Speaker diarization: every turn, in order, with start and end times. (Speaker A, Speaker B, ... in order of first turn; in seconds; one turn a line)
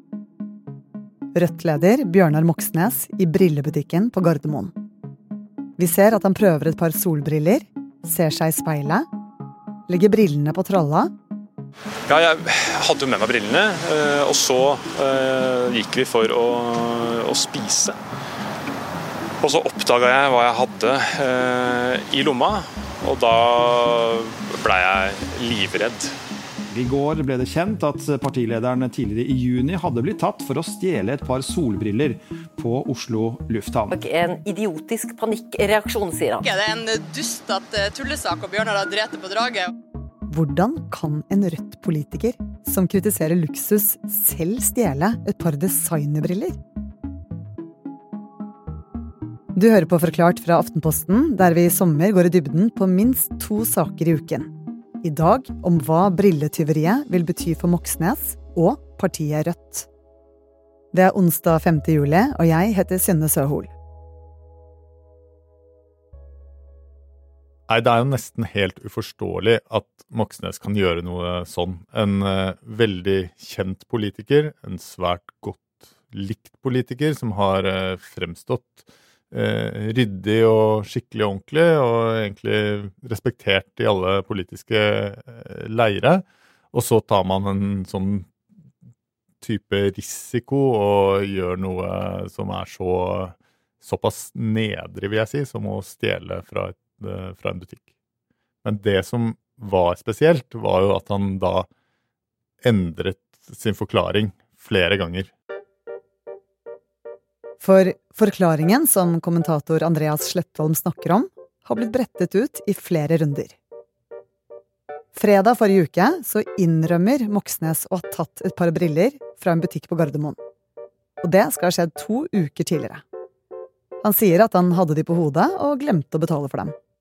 Speaker A: 1.3-4.7
Speaker A: 5.8-9.1
Speaker A: 9.9-11.1
Speaker B: 12.1-18.0
Speaker B: 19.4-26.1
Speaker C: 26.7-34.0
Speaker D: 33.9-36.6
Speaker E: 36.6-39.6
Speaker A: 40.3-46.6
Speaker A: 49.5-54.5
Speaker A: 55.0-59.9
Speaker A: 60.9-63.7
Speaker F: 67.7-88.3
Speaker F: 89.4-97.8
Speaker F: 98.6-101.7
Speaker F: 102.6-105.3
Speaker A: 107.6-113.6
Speaker A: 115.1-120.4
Speaker A: 121.2-123.0
Speaker A: 124.0-126.8